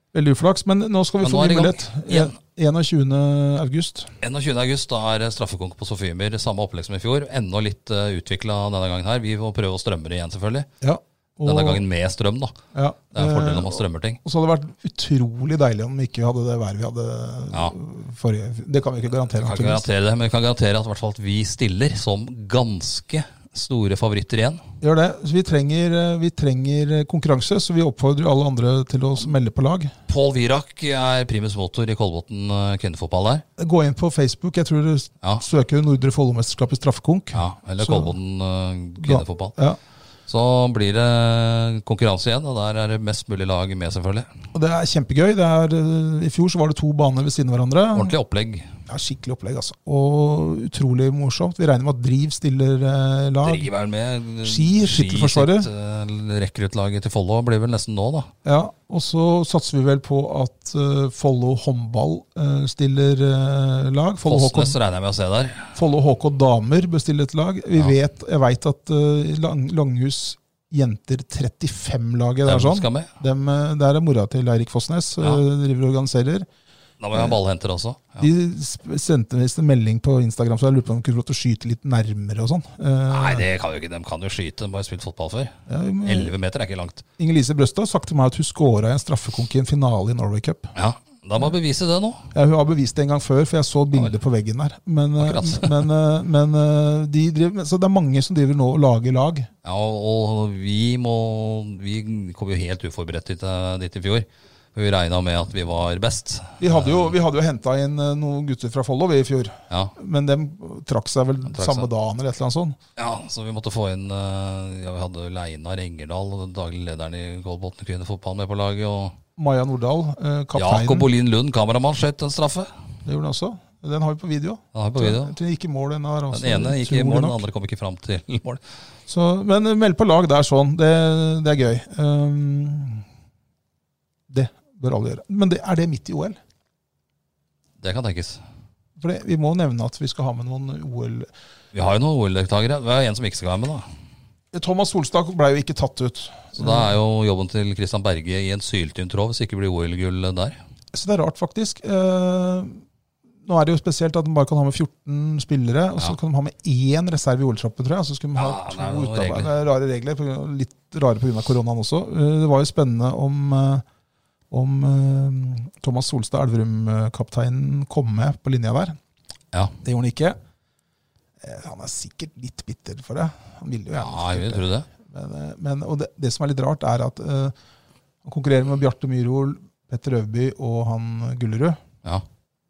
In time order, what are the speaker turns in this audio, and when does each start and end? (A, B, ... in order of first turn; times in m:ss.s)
0:00.1-0:04.1 A
0:01.2-0:02.4 B
0:04.2-0:10.7 B
0:10.8-0:11.8 A
0:11.4-0:12.6 B
0:12.7-0:19.8 A
0:13.1-0:14.2 B
0:19.3-0:24.6 B
0:24.8-0:29.9 A
0:30.1-0:33.4 B
0:33.6-0:38.1 A
0:37.3-0:39.6 B
0:39.0-0:39.8 A
0:40.3-0:44.3 B
0:44.5-0:48.1 A
0:47.9-0:48.7 B
0:48.9-0:53.7 A
0:53.4-0:58.3 B
0:54.4-0:55.7 A
0:58.4-1:04.8 A
1:04.3-1:05.8 B
1:05.8-1:16.5 A
1:12.4-1:13.1 B
1:17.0-1:18.3 B
1:18.2-1:23.4 A
1:23.1-1:27.0 B
1:25.7-1:26.3 A
1:27.2-1:30.7 A
1:30.8-1:32.3 B
1:32.3-1:39.5 A
1:35.2-1:35.8 B
1:39.6-1:47.1 B
1:46.6-1:52.8 A
1:51.5-1:51.9 B
1:53.0-1:59.2 B
1:59.4-2:01.1 A
2:00.6-2:02.7 B
2:03.0-2:07.4 A
2:04.7-2:05.4 B
2:06.3-2:08.6 B
2:09.1-2:13.0 A
2:14.3-2:16.4 A
2:17.8-2:18.4 B
2:19.0-2:21.3 A
2:21.7-2:23.9 B
2:24.5-2:26.9 A
2:26.6-2:30.6 B
2:30.9-2:32.8 A
2:33.4-2:43.8 A
2:38.4-2:39.5 B
2:44.5-2:49.0 A
2:49.8-2:50.4 A
2:51.4-2:57.6 A
2:54.0-2:54.9 B
2:58.2-3:01.8 A